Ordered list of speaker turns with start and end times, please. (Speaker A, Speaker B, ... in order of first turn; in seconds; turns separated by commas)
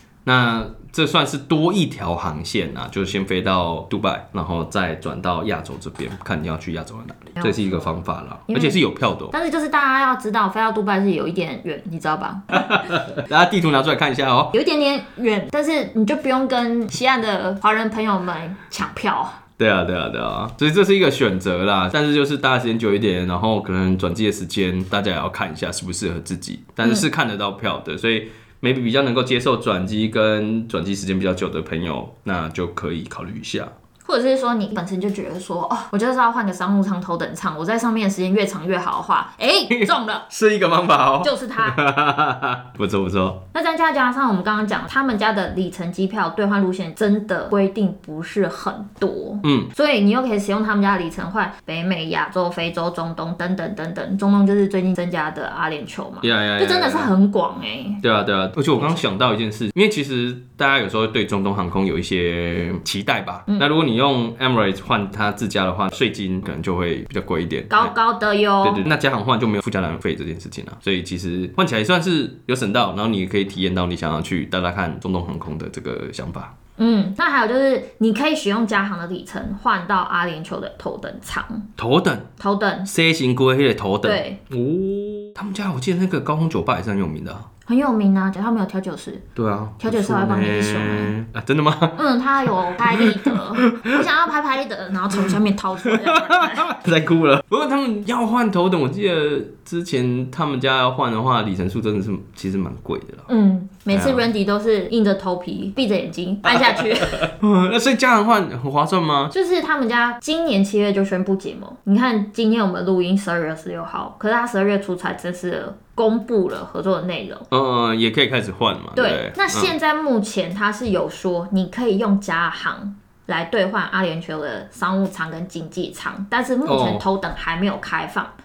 Speaker A: 0.2-9.3, Speaker B: 7.4-8.0, Speaker B: 8.5-8.8, Speaker B: 9.3-12.8, Speaker A: 12.5-14.5, Speaker B: 14.5-19.4, Speaker A: 19.6-33.7, Speaker B: 34.0-40.3, Speaker A: 39.7-43.4, Speaker B: 41.2-41.8, Speaker B: 43.5-58.0, Speaker A: 49.4-49.7, Speaker A: 56.2-57.1, Speaker A: 58.0-67.9, Speaker B: 58.8-59.0, Speaker B: 67.7-68.8, Speaker A: 68.6-76.5, Speaker B: 76.8-81.7, Speaker A: 81.8-82.3, Speaker B: 82.4-82.9, Speaker A: 82.9-87.5, Speaker B: 84.0-84.4, Speaker B: 87.7-89.2, Speaker A: 89.3-92.0, Speaker B: 89.8-91.1, Speaker B: 92.0-96.7, Speaker A: 92.8-93.9, Speaker A: 96.0-103.3, Speaker B: 103.3-107.3, Speaker A: 103.9-104.3, Speaker A: 106.5-109.3, Speaker B: 109.3-117.5, Speaker A: 117.5-119.7, Speaker B: 119.0-128.3, Speaker A: 126.7-127.0